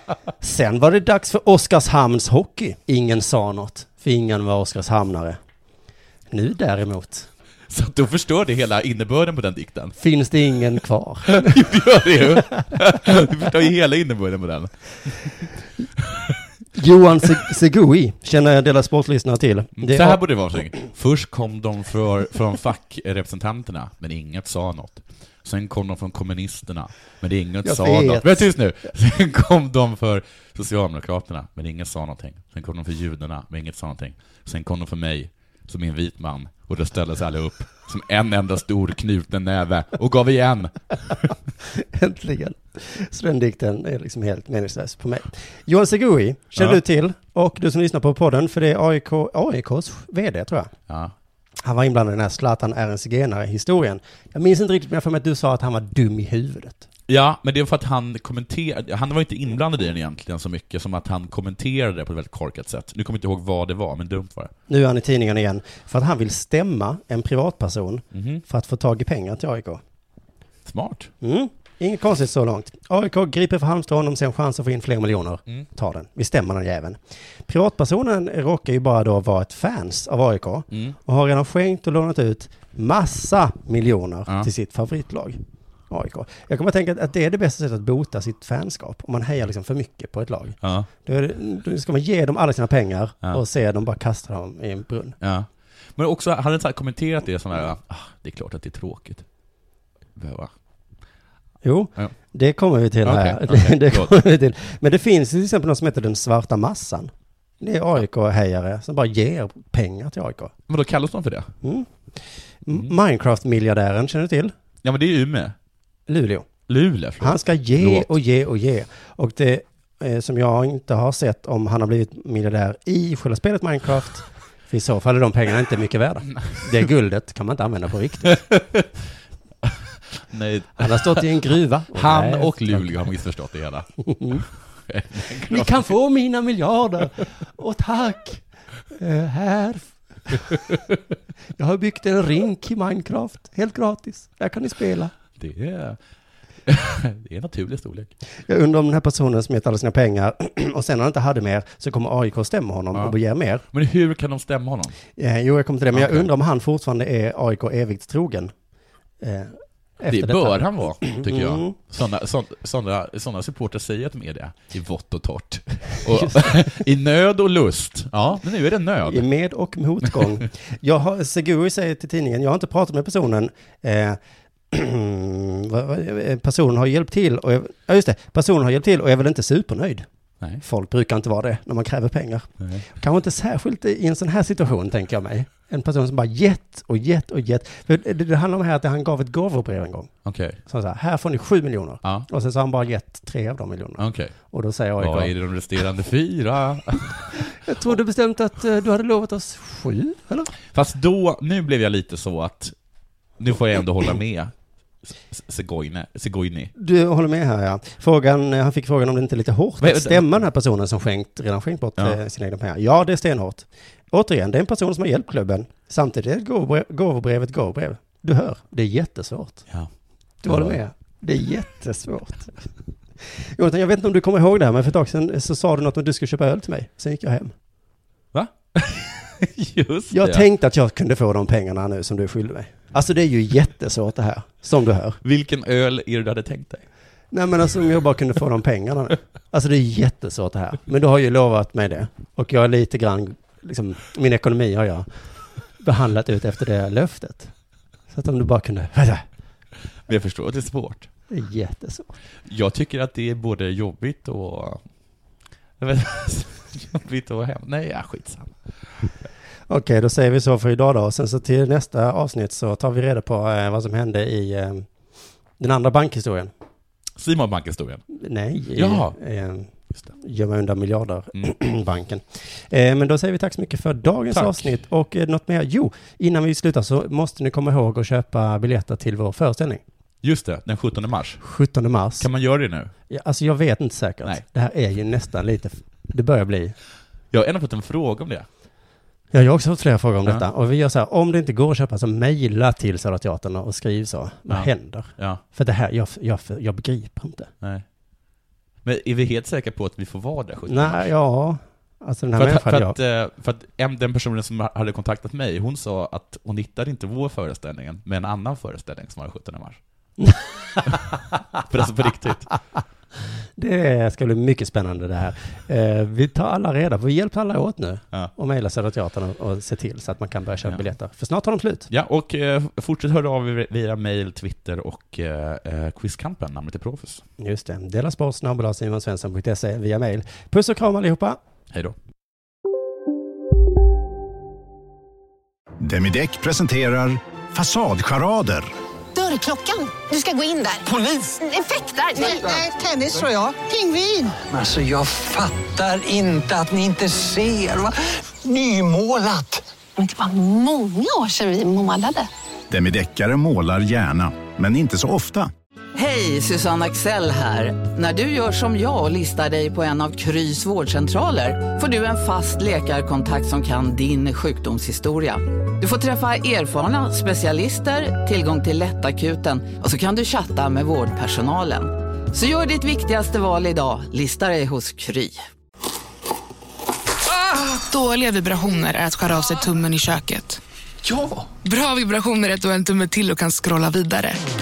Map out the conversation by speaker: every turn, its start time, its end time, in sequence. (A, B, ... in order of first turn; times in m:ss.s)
0:00.4-0:05.4 A
0:06.3-0:07.3 A
0:07.7-0:10.0 B
0:10.0-0:11.6 A
0:11.3-0:15.5 B
0:16.8-0:20.2 A
0:19.8-0:41.3 B
0:27.6-0:28.5 A
0:41.7-0:50.7 A
0:50.9-0:51.1 B
0:51.6-0:56.9 A
0:57.1-1:04.5 B
1:04.7-1:09.8 A
1:08.1-1:08.4 B
1:10.6-1:11.1 B
1:11.2-1:25.4 A
1:20.7-1:21.0 B
1:25.9-1:35.2 A
1:30.6-1:30.9 B
1:35.2-1:39.3 B
1:40.2-1:40.5 B
1:41.6-1:50.5 A
1:43.0-1:44.2 B
1:50.7-1:51.5 B
1:51.6-1:51.9 A
1:52.6-1:54.5 A
1:54.8-1:55.6 B
1:56.1-1:56.5 A
1:56.7-1:58.1 B
1:57.2-2:08.4 A
2:08.3-2:08.9 B
2:09.6-2:11.3 B
2:10.8-2:12.9 A
2:11.9-2:15.9 B
2:14.0-2:14.4 A
2:15.5-2:20.6 A
2:21.6-2:25.1 A
2:25.4-2:26.0 B
2:26.6-2:28.1 B
2:28.5-2:33.6 A
2:33.7-2:35.0 B
2:35.2-2:38.5 A
2:35.9-2:36.3 B
2:39.2-2:41.8 A
2:40.1-2:49.3 B
2:46.1-2:46.7 A
2:49.1-2:54.2 A
2:54.7-3:00.1 A
3:00.6-3:10.1 A
3:02.6-3:02.8 B
3:10.2-3:10.6 B
3:10.6-3:15.3 A
3:14.0-3:14.3 B
3:15.0-3:17.4 B
3:17.6-3:20.5 A
3:20.7-3:22.8 B
3:23.4-3:24.5 B
3:25.1-3:26.7 B
3:26.8-3:39.7 A
3:29.8-3:30.4 B
3:40.4-3:42.6 A
3:40.5-3:40.8 B
3:43.6-3:47.5 A
3:48.3-3:50.5 B
3:50.1-3:55.2 A
3:55.2-3:56.8 B
3:57.3-4:05.1 A
4:05.8-4:07.5 A
4:08.1-4:09.2 A
4:10.1-4:11.1 B
4:11.3-4:12.2 A
4:12.5-4:14.8 B
4:15.8-4:18.6 B
4:19.7-4:24.9 A
4:25.6-4:26.5 A
4:27.2-4:28.0 B
4:28.1-4:39.8 A
4:28.8-4:29.2 B
4:34.3-4:34.7 B
4:40.2-4:41.4 B
4:41.4-4:42.3 A
4:42.2-4:42.9 B
4:43.1-4:46.8 A
4:47.3-4:48.5 B
4:49.3-4:57.5 A
4:54.5-4:55.4 B
4:58.8-5:01.1 B
5:00.7-5:03.0 A
5:02.4-5:09.8 B
5:10.2-5:10.9 A
5:10.9-5:12.5 B
5:13.6-5:21.9 A
5:21.9-5:27.2 B
5:27.4-5:31.4 A
5:31.7-5:32.0 B
5:35.8-5:38.7 C
5:39.1-5:44.3 D
5:44.5-5:49.6 E
5:50.0-5:52.3 D
5:52.7-5:55.5 C
5:56.0-6:15.4 F
6:17.8-6:20.6 G
6:21.6-6:24.4 G